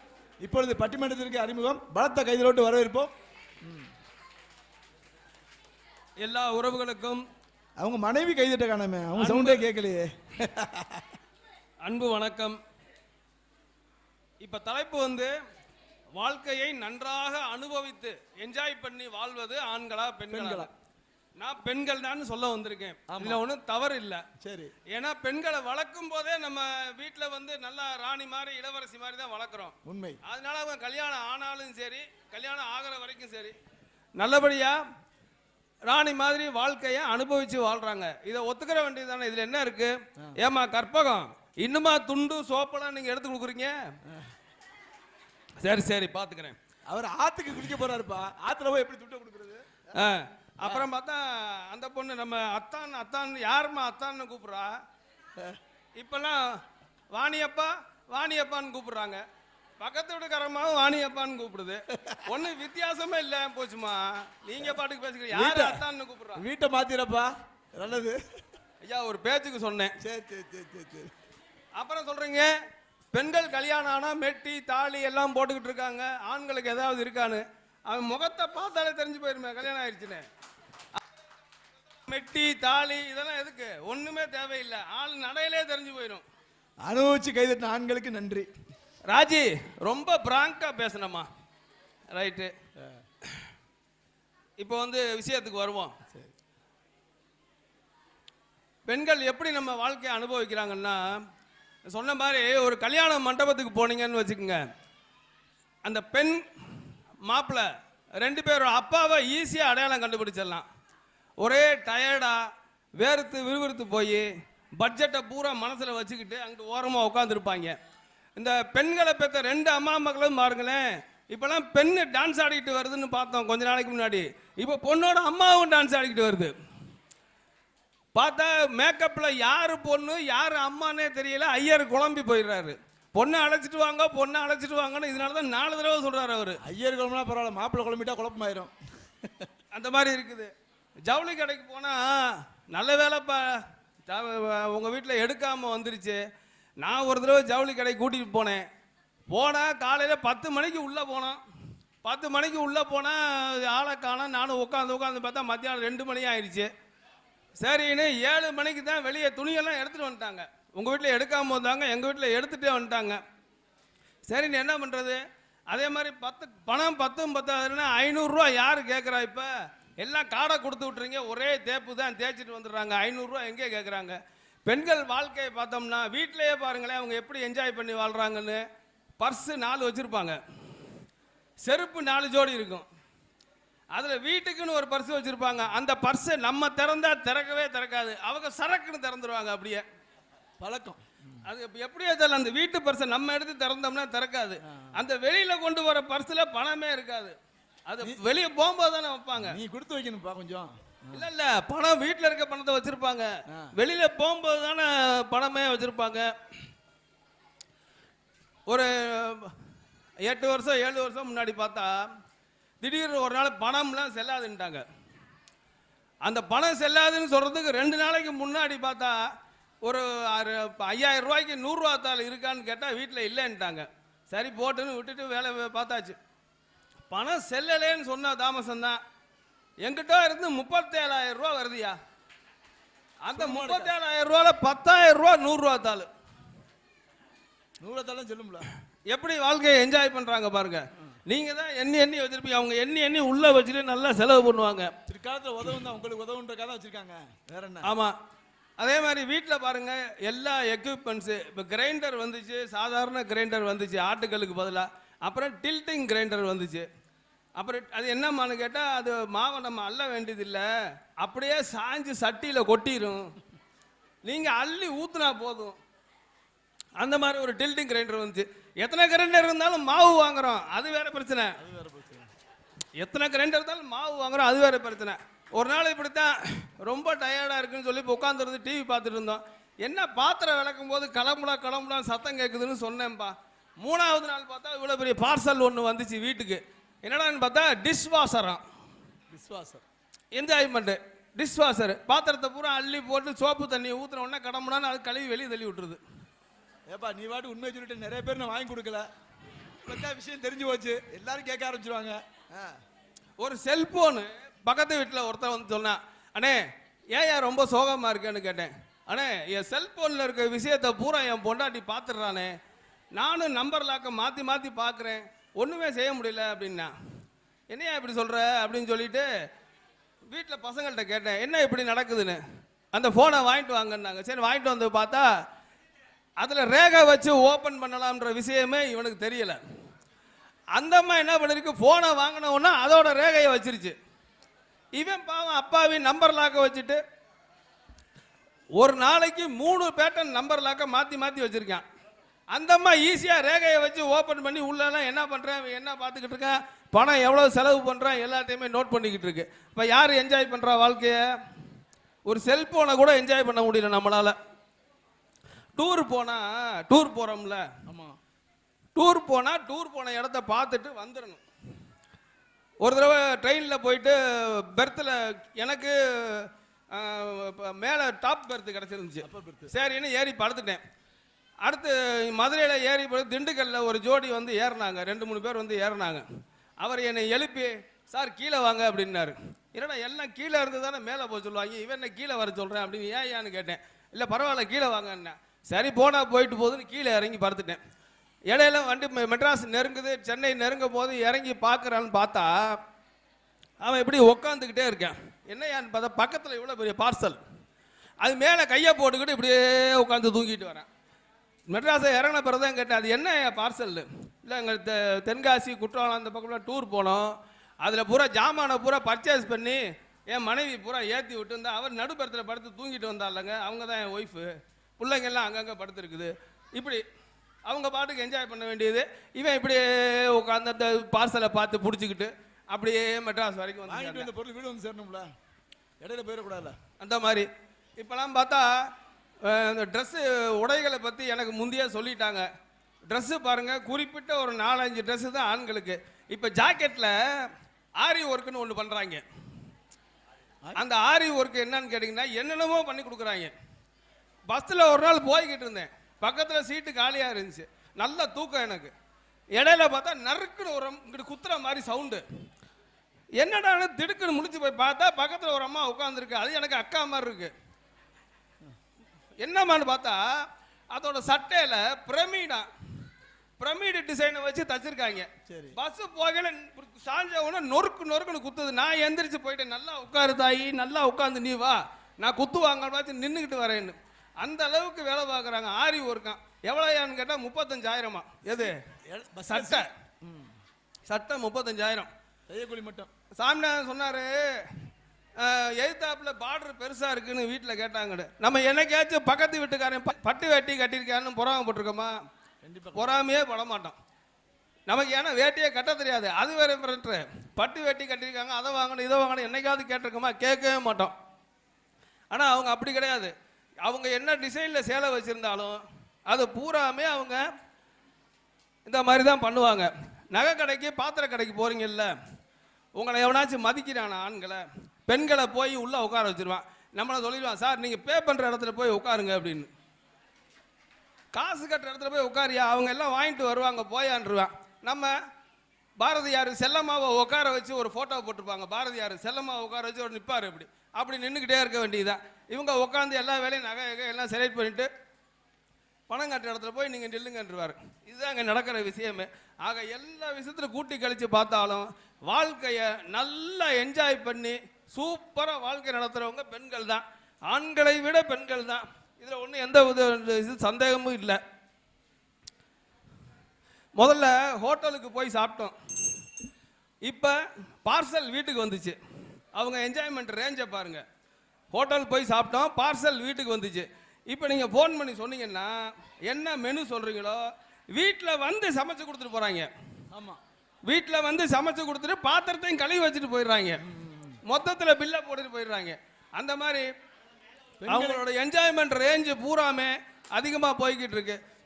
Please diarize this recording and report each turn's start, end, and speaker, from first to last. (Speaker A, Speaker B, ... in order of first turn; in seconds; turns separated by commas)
Speaker A: 0.4-3.1, Speaker B: 6.2-7.2, Speaker A: 7.8-11.0, Speaker B: 9.2-9.6, Speaker B: 11.8-12.6, Speaker B: 14.4-15.3, Speaker B: 16.1-20.7, Speaker A: 20.3-20.7, Speaker B: 21.4-24.2, Speaker A: 23.1-23.4, Speaker A: 24.4-24.7, Speaker B: 24.9-29.7, Speaker A: 29.9-30.2, Speaker B: 30.2-33.5, Speaker B: 34.2-34.8, Speaker B: 35.9-43.7, Speaker B: 45.6-46.5, Speaker A: 46.9-49.8, Speaker B: 49.9-54.7, Speaker B: 56.0-56.6, Speaker B: 57.1-59.2, Speaker B: 59.8-66.4, Speaker A: 61.9-62.2, Speaker A: 65.3-68.2, Speaker B: 68.8-69.9, Speaker A: 70.0-71.1, Speaker B: 71.8-72.5, Speaker B: 73.1-80.2, Speaker B: 82.1-86.2, Speaker A: 86.8-88.5, Speaker B: 89.1-91.3, Speaker B: 92.1-92.5, Speaker B: 94.6-95.9, Speaker B: 98.9-101.2, Speaker B: 101.9-104.6, Speaker B: 105.8-107.7, Speaker B: 108.2-110.7, Speaker B: 111.4-112.4, Speaker B: 113.0-117.7, Speaker B: 118.3-126.5, Speaker B: 128.1-136.6, Speaker A: 136.6-138.7, Speaker B: 139.7-140.5, Speaker B: 141.1-146.2, Speaker B: 146.8-148.6, Speaker B: 149.3-151.4, Speaker B: 152.0-156.7, Speaker B: 157.6-163.2, Speaker B: 164.3-178.6, Speaker B: 179.2-180.4, Speaker B: 181.6-182.8, Speaker B: 183.9-189.8, Speaker A: 190.6-191.0, Speaker B: 191.4-197.3, Speaker B: 197.9-199.6, Speaker A: 199.4-201.2, Speaker B: 201.1-206.3, Speaker B: 208.7-209.5, Speaker B: 210.2-212.1, Speaker B: 212.8-214.8, Speaker B: 216.2-219.2, Speaker B: 219.8-226.2, Speaker B: 227.1-229.0, Speaker B: 229.8-232.0, Speaker B: 233.2-236.1, Speaker A: 233.3-233.9, Speaker A: 237.8-238.7, Speaker B: 239.1-244.9, Speaker A: 245.1-247.9, Speaker B: 247.8-248.1, Speaker B: 248.8-256.9, Speaker B: 257.6-263.3, Speaker B: 264.2-265.8, Speaker B: 267.0-271.6, Speaker A: 271.6-272.3, Speaker B: 273.0-288.6, Speaker A: 289.3-289.8, Speaker B: 290.3-296.0, Speaker A: 296.9-299.1, Speaker A: 299.9-302.8, Speaker B: 303.4-306.6, Speaker B: 307.1-312.5, Speaker B: 313.1-316.9, Speaker B: 317.7-319.3, Speaker B: 320.3-322.4, Speaker B: 322.9-325.3, Speaker B: 326.4-329.6, Speaker B: 330.7-333.9, Speaker B: 334.9-337.0, Speaker B: 338.8-341.8, Speaker B: 342.5-351.2, Speaker B: 352.3-354.4, Speaker B: 355.8-357.6, Speaker A: 357.9-358.1, Speaker B: 358.9-361.4, Speaker B: 362.8-370.8, Speaker A: 369.2-369.7, Speaker B: 371.6-376.2, Speaker B: 376.8-387.8, Speaker B: 388.5-392.8, Speaker B: 393.8-397.4, Speaker B: 398.2-400.9, Speaker B: 401.7-417.0, Speaker B: 417.6-424.3, Speaker A: 423.8-425.3, Speaker A: 426.0-426.8, Speaker B: 427.0-428.9, Speaker B: 429.4-432.4, Speaker B: 433.1-439.2, Speaker B: 440.8-443.5, Speaker B: 444.5-448.9, Speaker B: 449.6-452.2, Speaker B: 453.4-457.5, Speaker B: 459.4-460.4, Speaker B: 460.9-462.7, Speaker B: 463.6-478.8, Speaker A: 465.5-465.8, Speaker A: 478.5-480.5, Speaker B: 479.5-479.9, Speaker B: 481.1-482.1, Speaker A: 482.5-483.1, Speaker B: 483.4-484.8, Speaker B: 485.4-492.1, Speaker A: 492.6-493.1, Speaker B: 492.9-493.9, Speaker B: 494.9-501.1, Speaker B: 502.3-503.3, Speaker B: 503.8-507.4, Speaker B: 508.9-512.1, Speaker B: 513.0-519.7, Speaker B: 521.3-525.1, Speaker B: 526.0-534.9, Speaker B: 536.1-551.4, Speaker B: 554.0-555.7, Speaker B: 557.0-559.0, Speaker B: 559.5-561.0, Speaker B: 561.7-567.4, Speaker B: 567.9-569.7, Speaker A: 570.1-570.4, Speaker B: 570.9-573.8, Speaker A: 573.8-574.4, Speaker B: 574.5-576.9, Speaker A: 577.8-578.2, Speaker B: 577.9-581.4